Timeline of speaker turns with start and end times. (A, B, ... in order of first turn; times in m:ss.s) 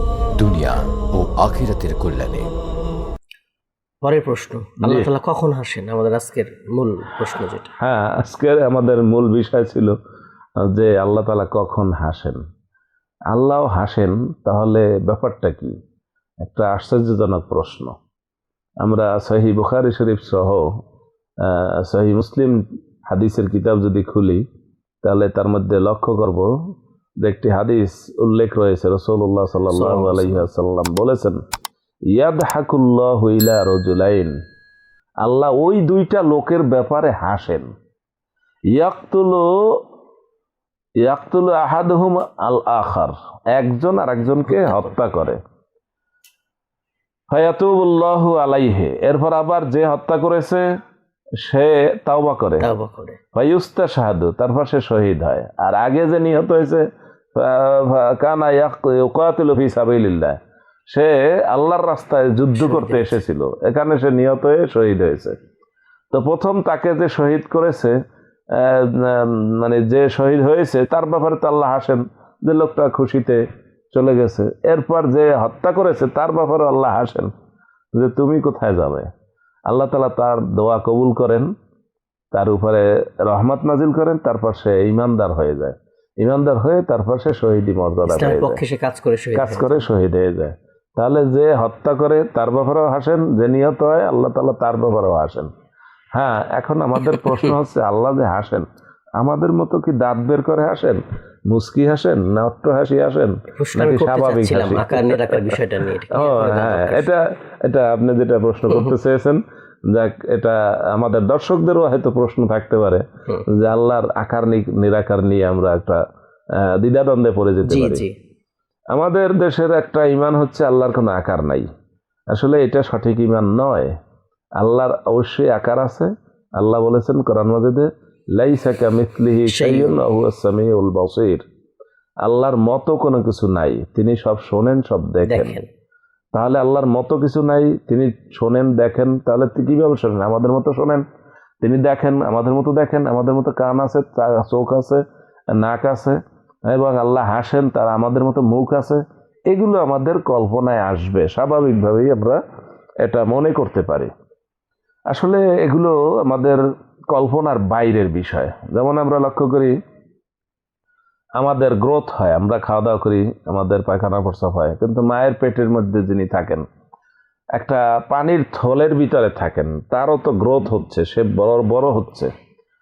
0:00.4-0:02.5 A
0:04.0-0:07.7 B
0:04.8-0:05.1 C
0:07.8-0:10.0 C
0:10.7-0:12.4 C
0:13.3-0:15.8 C
0:16.4-0:17.9 C
0:18.8-0:20.7 C
0:21.4-0:24.4 C
0:25.0-0:26.5 C
0:27.2-0:31.4 C
0:29.7-0:30.4 B
0:32.1-0:34.3 C
0:35.2-0:37.7 C
0:38.7-0:39.5 C
0:41.0-0:45.4 C
0:44.5-0:44.9 B
0:47.3-0:50.7 C
0:51.4-0:52.7 C
0:52.6-0:53.2 B
0:53.3-1:00.4 C
1:00.9-1:05.3 C
1:02.6-1:03.1 B
1:06.1-1:08.0 C
1:08.5-1:17.3 C
1:18.0-1:19.1 C
1:19.7-1:21.5 C
1:22.3-1:28.6 C
1:28.0-1:29.9 B
1:29.3-1:35.5 C
1:36.1-1:38.6 C
1:39.2-1:56.0 C
1:43.6-1:47.2 B
1:56.6-1:58.0 C
1:57.6-1:58.1 B
1:58.9-2:01.7 C
2:02.3-2:03.9 C
2:04.6-2:11.4 C
2:09.5-2:10.0 B
2:12.2-2:15.6 C
2:15.2-2:15.7 B
2:16.3-2:21.0 C
2:21.6-2:32.4 C
2:33.0-2:34.1 C
2:35.1-2:36.6 C
2:37.1-2:39.7 C
2:41.4-2:46.6 C
2:47.6-2:52.3 C